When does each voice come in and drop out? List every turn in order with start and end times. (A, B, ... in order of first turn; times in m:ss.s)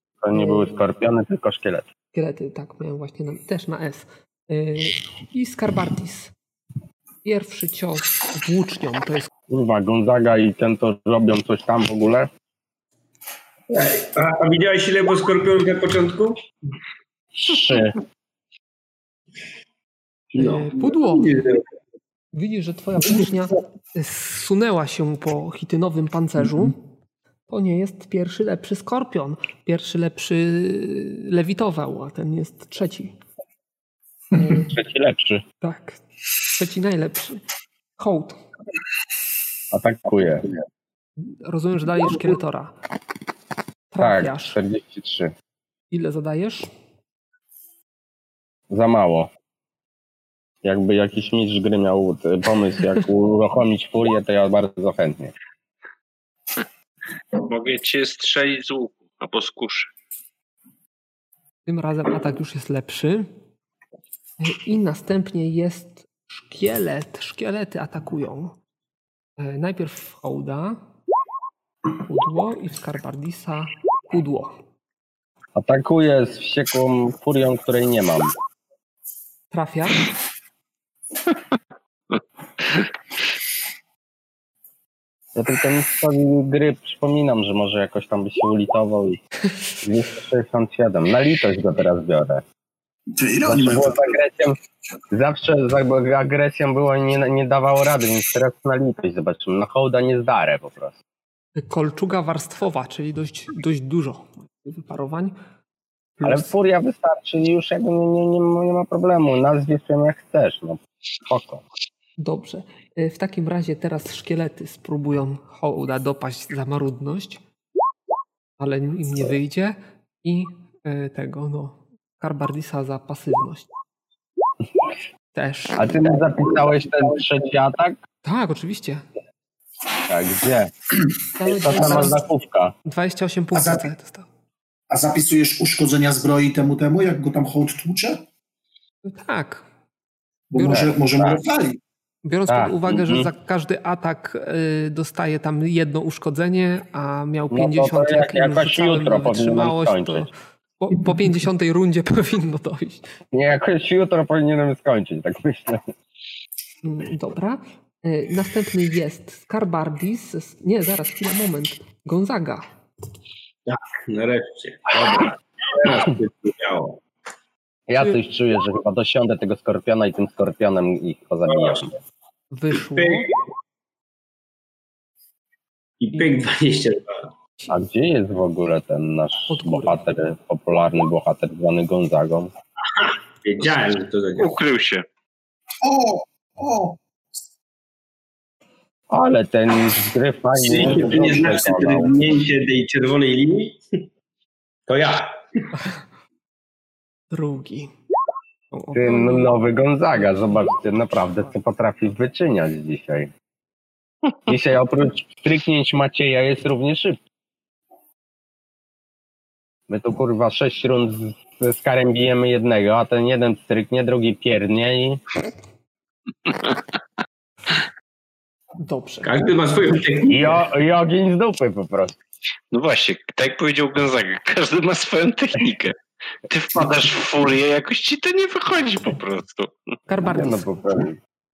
0:00.2-0:01.8 A
0:00.3-0:00.7 B
0:02.1-0:06.3 B
0:07.2-0:09.3 B
0:09.5-0:12.3 A
0:13.7-0:16.4 C
0:17.4-0:18.0 A
0:20.3-0:21.6 C
0:20.4-0:21.3 B
0:22.3-0:26.8 B
0:27.5-0:33.2 B
0:34.3-0:34.7 B
0:34.6-0:35.4 A
0:35.6-0:37.4 B
0:38.0-0:38.4 B
0:39.7-0:40.5 A
0:41.2-0:42.7 B
0:43.9-0:44.6 B
0:44.0-0:45.3 A
0:45.9-0:46.7 B
0:48.7-0:49.3 A
0:50.6-0:55.3 A
0:57.3-0:59.9 D
1:01.6-1:03.3 B
1:04.4-1:08.6 B
1:09.4-1:10.8 B
1:12.0-1:14.5 B
1:15.6-1:18.4 A
1:19.5-1:20.0 B
1:25.3-1:29.2 A
1:29.8-1:32.4 A
1:33.1-1:34.0 E
1:33.4-1:34.6 A
1:35.1-1:41.0 A
1:41.6-1:45.4 B
1:46.2-1:46.5 B
1:46.2-1:51.6 A
1:52.2-1:57.4 B
1:58.6-2:03.7 B
2:05.3-2:05.9 B
2:05.8-2:08.0 A
2:08.2-2:09.0 B
2:10.1-2:10.7 A
2:11.4-2:12.2 B
2:11.4-2:12.7 A
2:12.8-2:14.3 B
2:13.5-2:13.8 E
2:14.9-2:18.2 E
2:19.0-2:19.6 B
2:20.5-2:21.8 E
2:20.6-2:20.9 B
2:20.7-2:21.4 A
2:22.2-2:33.1 B
2:22.5-2:23.3 A
2:27.5-2:30.3 A
2:33.3-2:35.8 A
2:36.8-2:42.7 B
2:43.7-2:47.0 C
2:47.9-2:52.0 A
2:51.5-2:51.8 C
2:52.5-2:53.3 B
2:52.9-2:53.3 C
2:56.0-2:57.3 C
2:57.7-3:02.5 A
2:59.5-3:00.0 B
3:03.0-3:04.5 C
3:04.4-3:05.0 D
3:05.8-3:07.0 E
3:09.1-3:12.1 A
3:10.6-3:13.8 C
3:14.9-3:15.6 C
3:17.3-3:17.9 B
3:18.7-3:19.6 B
3:18.9-3:23.3 A
3:24.5-3:27.2 A
3:29.9-3:35.2 A
3:38.8-3:39.3 B
3:39.2-3:40.6 C
3:40.3-3:42.2 A
3:42.7-3:46.0 D
3:46.5-3:49.7 D
3:50.1-3:50.7 B
3:50.1-3:51.2 A